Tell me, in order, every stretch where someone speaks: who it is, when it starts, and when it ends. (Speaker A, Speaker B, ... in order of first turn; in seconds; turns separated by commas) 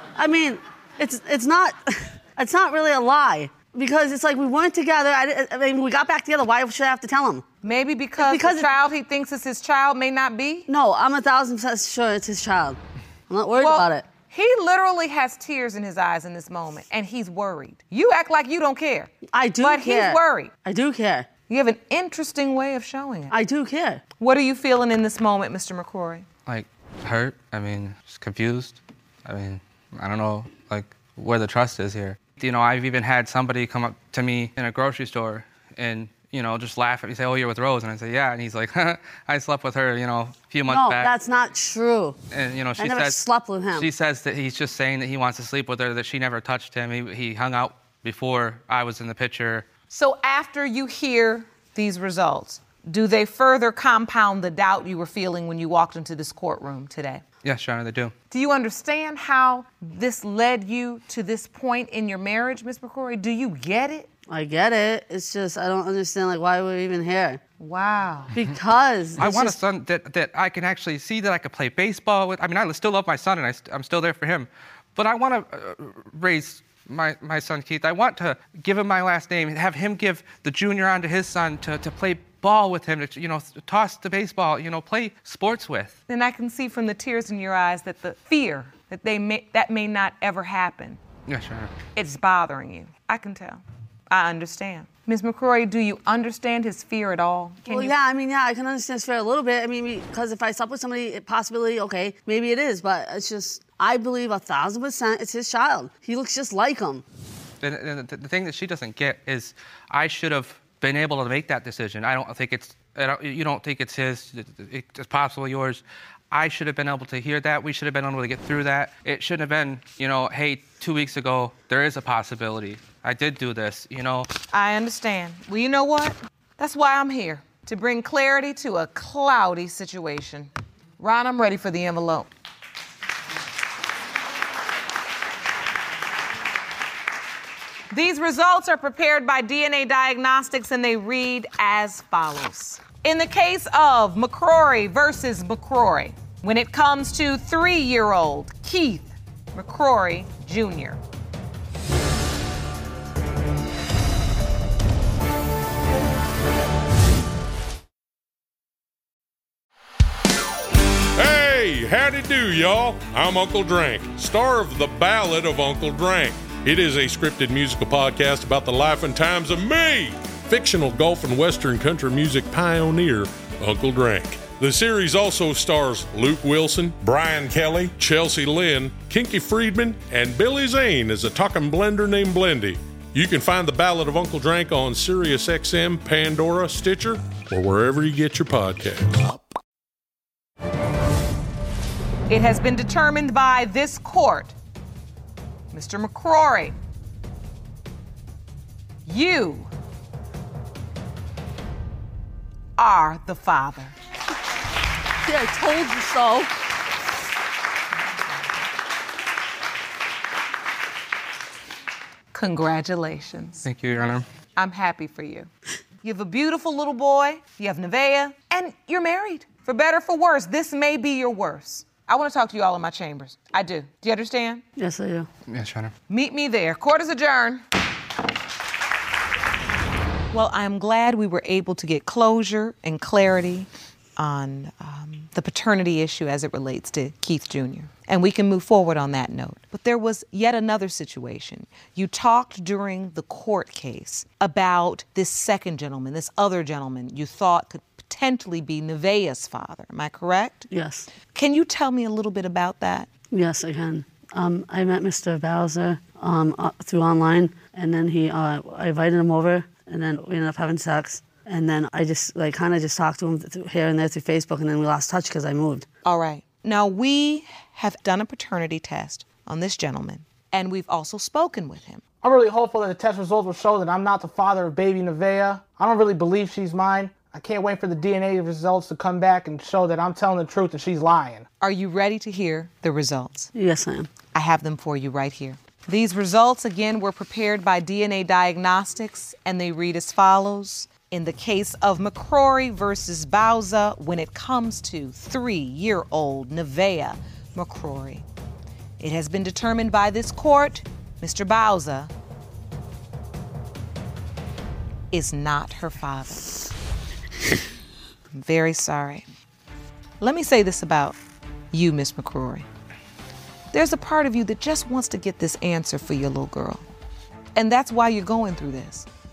Speaker A: 0.2-7.5, Speaker B: 7.6-10.7, Speaker A: 8.2-8.8, Speaker A: 10.7-14.1, Speaker B: 13.6-20.5, Speaker A: 19.3-21.3, Speaker B: 21.5-23.3, Speaker A: 23.3-24.0, Speaker B: 24.2-26.3, Speaker C: 26.5-41.1, Speaker A: 40.7-42.2, Speaker C: 42.3-43.2, Speaker A: 42.8-43.9, Speaker C: 43.7-49.7, Speaker B: 49.9-57.2, Speaker C: 57.4-58.1, Speaker B: 58.3-64.1, Speaker A: 64.3-67.4, Speaker B: 67.6-68.3, Speaker A: 68.3-69.6, Speaker C: 69.2-86.0, Speaker B: 86.1-91.0, Speaker C: 91.3-91.7, Speaker B: 92.0-98.0, Speaker A: 97.7-107.0, Speaker C: 107.6-124.3, Speaker B: 124.5-132.3, Speaker B: 137.9-151.0, Speaker D: 161.2-189.3, Speaker B: 192.3-194.5, Speaker B: 195.7-196.8, Speaker B: 199.1-199.7, Speaker B: 202.8-203.9, Speaker A: 205.2-206.5, Speaker B: 212.3-213.7, Speaker C: 213.6-214.2, Speaker B: 214.6-215.5, Speaker B: 216.0-224.6, Speaker A: 224.8-225.3, Speaker C: 225.5-225.9, Speaker B: 226.1-227.6, Speaker B: 230.3-250.7, Speaker A: 250.7-251.1, Speaker B: 251.3-253.1, Speaker A: 253.3-265.9, Speaker B: 266.0-272.0, Speaker E: 272.2-281.5, Speaker B: 281.6-283.5, Speaker A: 283.5-284.1, Speaker B: 284.3-298.2, Speaker B: 299.0-302.1, Speaker B: 305.1-306.6, Speaker B: 308.3-309.2, Speaker B: 310.2-311.2, Speaker B: 311.7-312.6, Speaker B: 313.7-316.8, Speaker B: 317.6-319.1